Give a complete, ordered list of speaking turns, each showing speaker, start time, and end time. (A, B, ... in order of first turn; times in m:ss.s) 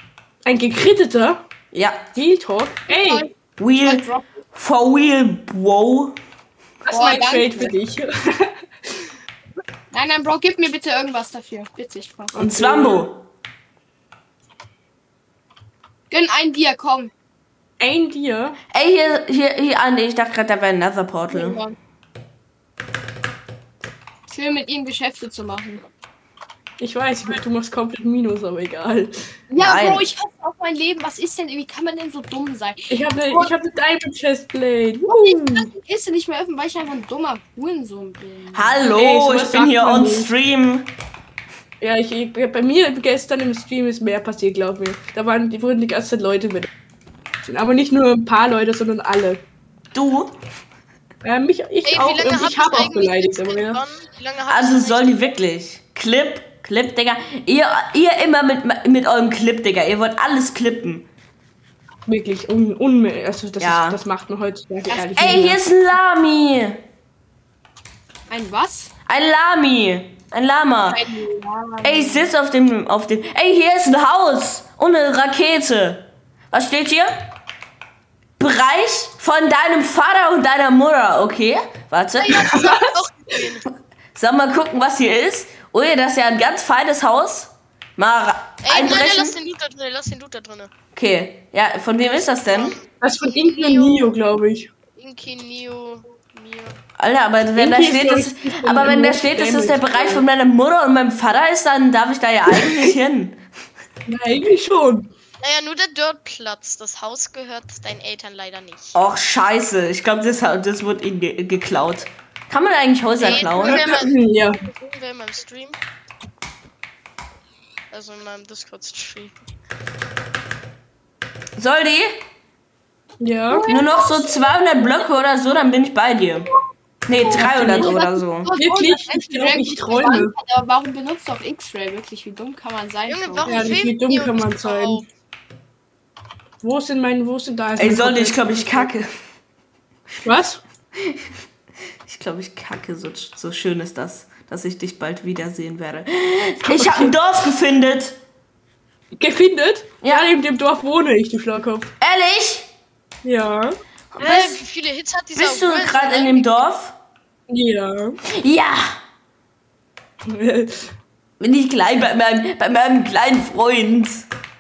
0:00.4-0:01.4 A
0:01.7-0:02.1 B
0:02.2-0:03.3 A
0:02.9-0:04.2 C
0:03.6-0:06.2 B
0:06.9-0:09.1 A
0:06.9-0:07.7 C
0:09.9-0:12.3 C
0:12.3-0:13.1 A
0:12.4-0:13.2 B
0:16.1-0:17.1 C
0:17.8-0:18.6 A
0:18.7-0:21.6 B
0:21.3-0:21.8 C
0:24.3-0:25.8 C
0:26.8-0:29.3 A
0:29.5-0:33.6 C
0:29.6-0:30.0 B
0:32.9-0:35.7 A
0:35.0-0:38.8 C
0:38.5-0:40.9 B
0:38.9-0:40.3 A
0:41.8-0:46.7 A
0:47.4-0:49.4 A
0:49.9-0:50.4 B
0:51.2-0:53.8 A
0:51.8-0:55.4 D
0:54.5-1:01.1 B
1:02.1-1:05.6 A
1:03.6-1:04.0 B
1:05.2-1:06.8 B
1:08.3-1:08.9 C
1:09.1-1:11.0 B
1:10.9-1:12.3 C
1:11.8-1:17.2 B
1:18.4-1:22.6 B
1:22.2-1:23.6 D
1:22.5-1:22.8 A
1:24.2-1:29.4 B
1:28.6-1:30.7 D
1:30.9-1:32.8 B
1:32.5-1:34.1 D
1:33.0-1:34.7 A
1:35.0-1:36.8 D
1:37.0-1:43.4 B
1:37.6-1:40.2 A
1:44.1-1:45.1 A
1:45.4-1:49.0 D
1:49.0-1:53.8 B
1:53.2-1:55.8 D
1:53.6-1:54.6 A
1:57.9-1:59.3 D
2:01.6-2:02.2 B
2:03.2-2:03.7 A
2:03.5-2:05.0 C
2:03.7-2:06.5 B
2:07.1-2:08.5 B
2:07.2-2:08.0 A
2:07.6-2:13.6 C
2:08.6-2:10.3 A
2:13.1-2:15.1 D
2:13.4-2:15.0 A
2:16.6-2:18.9 A
2:17.8-2:19.1 B
2:20.2-2:20.6 A
2:22.1-2:28.2 B
2:26.7-2:27.2 A
2:29.2-2:31.9 A
2:30.0-2:30.3 B
2:32.0-2:32.7 B
2:33.2-2:33.8 A
2:34.1-2:34.6 B
2:34.2-2:36.6 D
2:35.4-2:36.9 B
2:37.5-2:38.2 A
2:38.3-2:39.0 B
2:40.3-2:40.9 A
2:41.4-2:44.2 B